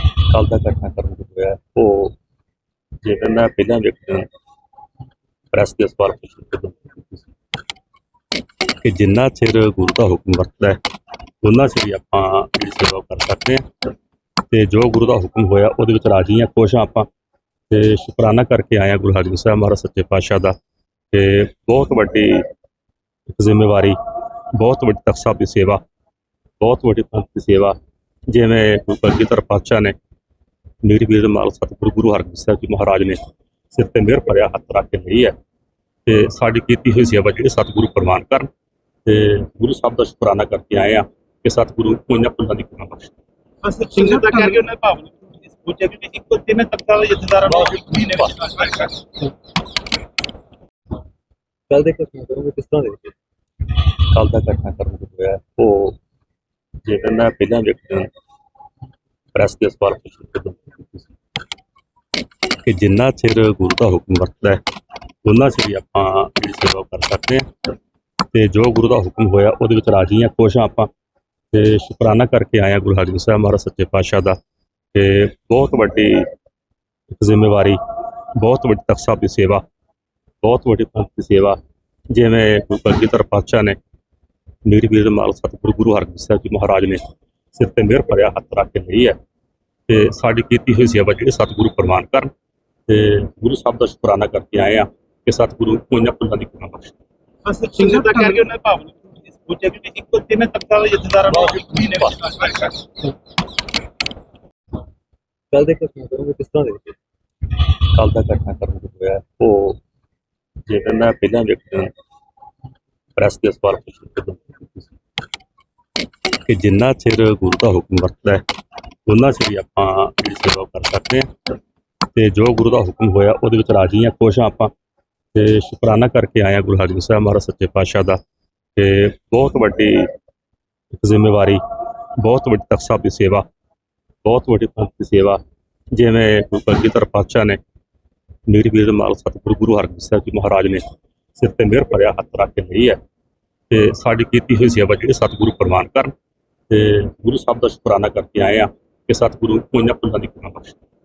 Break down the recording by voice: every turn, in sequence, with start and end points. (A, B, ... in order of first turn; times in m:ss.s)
0:00.3-0:02.1 A
0:03.0-0:04.3 A
0:05.5-0:07.2 A
0:08.8-0:10.8 A
0:11.4-0:13.6 A
0:14.5-0:17.1 A
0:17.7-0:20.6 A
0:21.1-0:22.5 A
0:23.3-0:24.0 A
0:24.6-0:25.8 A
0:26.6-0:27.8 A
0:28.3-0:30.0 A
0:30.8-0:33.2 A
0:33.7-0:35.3 A
0:36.0-0:38.5 A
0:39.0-0:43.1 A
0:43.6-0:49.0 B
0:51.7-0:53.1 C
0:53.9-0:56.0 A
0:56.8-0:58.1 A
0:59.3-1:01.0 A
1:02.6-1:04.6 A
1:05.2-1:07.5 A
1:08.3-1:10.9 A
1:11.5-1:14.4 A
1:14.9-1:16.3 A
1:17.1-1:17.8 A
1:18.4-1:19.6 A
1:20.4-1:21.6 A
1:22.1-1:23.8 A
1:24.6-1:27.0 A
1:27.5-1:29.2 A
1:29.9-1:32.3 A
1:32.9-1:37.0 A
1:37.4-1:42.8 B
1:45.5-1:46.9 C
1:47.8-1:49.8 A
1:50.7-1:51.9 A
1:53.2-1:54.9 A
1:56.4-1:58.4 A
1:59.1-2:01.3 A
2:02.1-2:04.7 A
2:05.3-2:08.2 A
2:08.8-2:10.1 A
2:10.9-2:11.6 A
2:12.2-2:13.4 A
2:14.2-2:15.4 A
2:15.9-2:17.6 A
2:18.5-2:20.8 A
2:21.4-2:23.0 A
2:23.7-2:26.1 A
2:26.7-2:30.8 A